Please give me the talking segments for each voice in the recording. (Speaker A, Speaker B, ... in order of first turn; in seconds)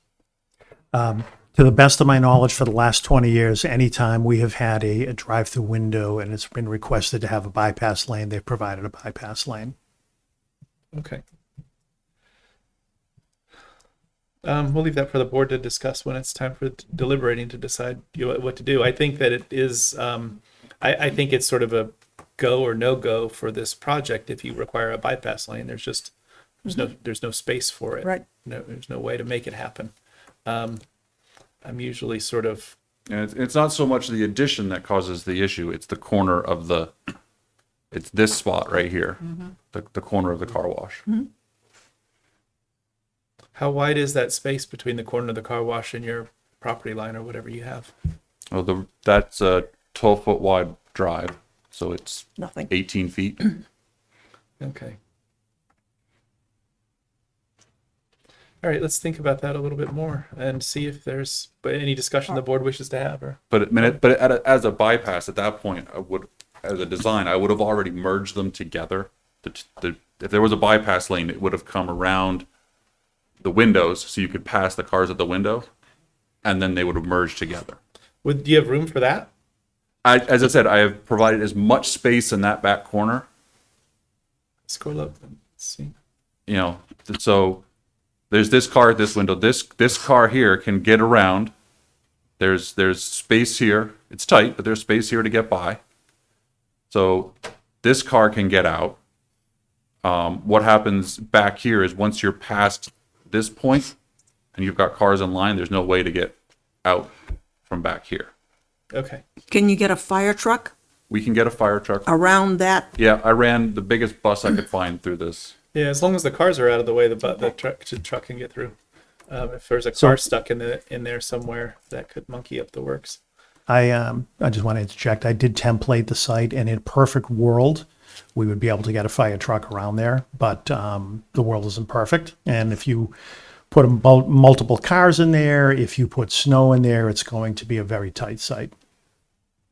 Speaker A: 0.9-9.7, 123.7-133.1, 133.7-138.7
Speaker B: 10.9-11.2, 14.4-26.1, 26.6-29.9, 30.4-30.8, 31.6-32.7, 43.5-47.9, 54.6-55.0, 58.6-63.4, 78.2-79.3, 84.7-85.9, 108.9-109.2, 115.7-118.7, 119.3-123.2
Speaker C: 33.1-36.9, 37.9-41.0, 48.5-53.5, 63.5-72.5, 73.4-75.7, 76.4-77.8, 80.0-83.2, 86.5-87.6, 88.3-91.5, 92.4-95.8, 96.9-99.0, 100.0-103.9, 104.5-108.3, 111.1-112.1, 112.9-115.5
Speaker D: 52.4-52.7, 109.5-110.7, 112.0-112.9